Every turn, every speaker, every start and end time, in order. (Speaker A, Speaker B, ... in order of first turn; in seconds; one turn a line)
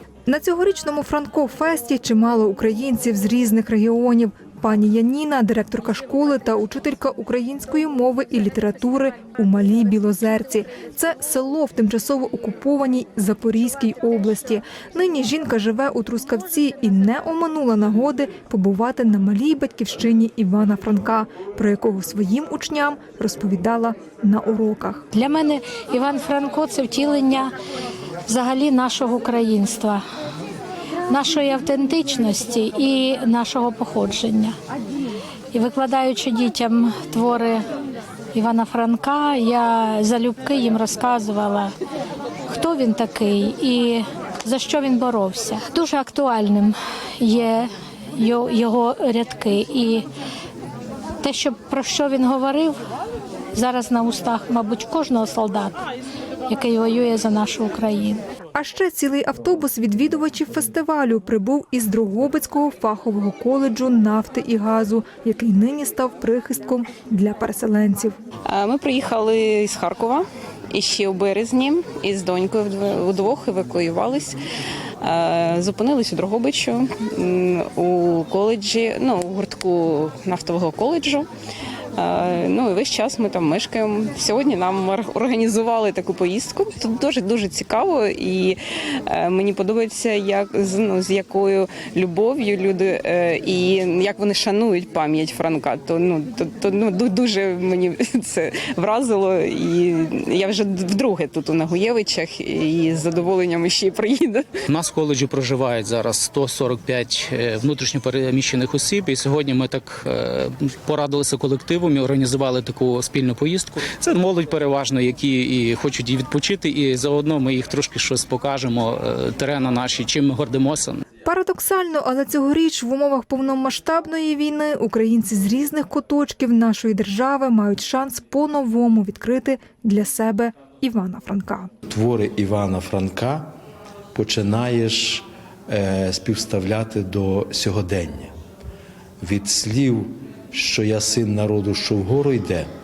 Speaker A: 0.3-25.1
Speaker B: 25.1-27.5
Speaker B: 28.3-30.0
Speaker B: 31.1-34.5
Speaker B: 35.5-37.6
Speaker B: 38.3-41.7
Speaker B: 42.5-50.0
Speaker B: 51.2-52.7
Speaker B: 53.5-55.8
Speaker B: 56.5-58.2
Speaker A: 58.5-68.1
Speaker C: 68.5-74.4
Speaker C: 75.0-81.3
Speaker C: 82.0-104.5
Speaker D: 104.7-121.0
Speaker A: 121.2-131.7
Speaker E: 131.9-133.5
Speaker E: 134.1-138.3
Speaker E: 139.2-142.7